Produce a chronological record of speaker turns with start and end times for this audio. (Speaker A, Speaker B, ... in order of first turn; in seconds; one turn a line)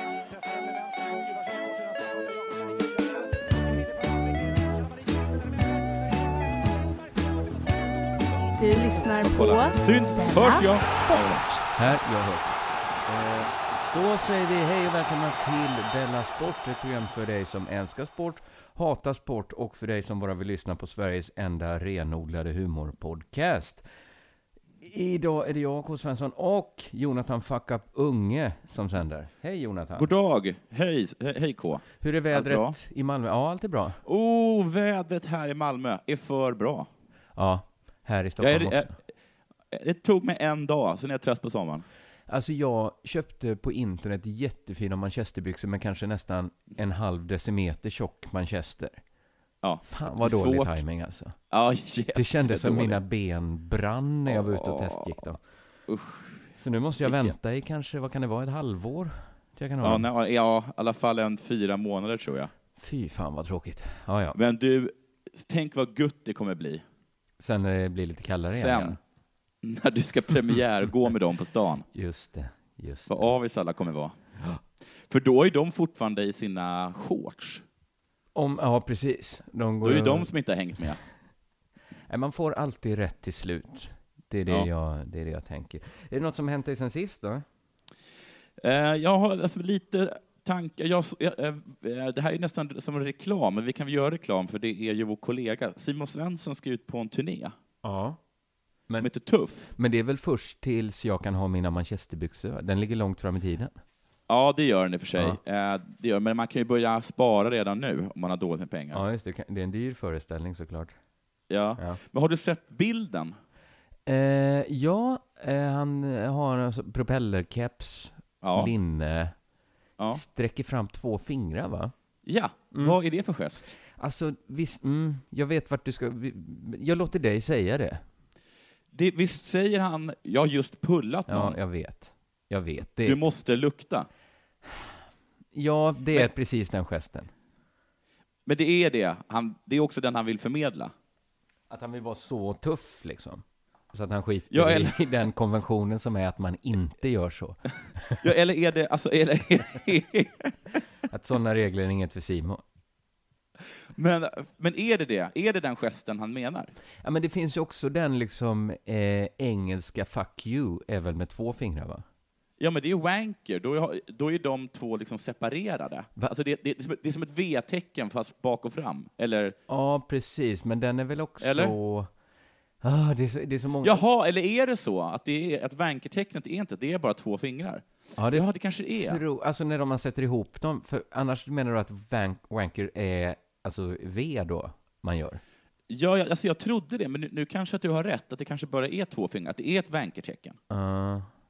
Speaker A: 8.6-11.6
Speaker B: 9.3-11.5
Speaker C: 11.8-23.8
Speaker C: 24.8-30.1
Speaker B: 30.0-32.8
Speaker C: 32.0-34.0
Speaker B: 34.0-36.9
Speaker C: 37.4-39.0
Speaker B: 38.4-39.0
Speaker B: 39.7-41.9
Speaker C: 42.3-49.0
Speaker B: 49.6-50.8
Speaker C: 49.9-51.4
Speaker B: 51.5-53.0
Speaker C: 52.1-55.4
Speaker B: 54.3-55.1
Speaker B: 55.9-56.4
Speaker C: 56.5-60.1
Speaker B: 57.0-57.3
Speaker B: 59.8-62.5
Speaker C: 62.8-64.4
Speaker B: 64.3-66.8
Speaker C: 67.4-69.0
Speaker B: 68.5-69.0
Speaker B: 69.6-71.9
Speaker C: 71.9-73.3
Speaker B: 73.1-74.2
Speaker B: 75.1-77.6
Speaker C: 78.3-80.3
Speaker B: 79.8-81.0
Speaker C: 82.1-87.5
Speaker B: 88.6-97.5
Speaker C: 97.8-98.2
Speaker B: 99.0-99.7
Speaker C: 99.8-103.8
Speaker B: 104.3-109.0
Speaker C: 108.9-110.9
Speaker B: 111.5-113.3
Speaker C: 114.1-119.3
Speaker B: 118.4-118.7
Speaker C: 120.1-121.9
Speaker B: 122.3-123.8
Speaker C: 123.9-128.0
Speaker B: 128.9-131.6
Speaker C: 131.3-133.2
Speaker B: 133.0-134.1
Speaker C: 135.5-137.3
Speaker B: 138.5-140.9
Speaker C: 141.7-148.2
Speaker B: 144.5-145.0
Speaker B: 148.2-150.6
Speaker C: 151.1-152.6
Speaker B: 153.9-156.7
Speaker C: 157.0-162.1
Speaker B: 162.6-169.6
Speaker C: 169.7-172.1
Speaker B: 171.4-171.7
Speaker C: 172.8-174.0
Speaker B: 173.8-179.2
Speaker C: 178.2-185.4
Speaker B: 185.9-190.6
Speaker C: 190.7-191.3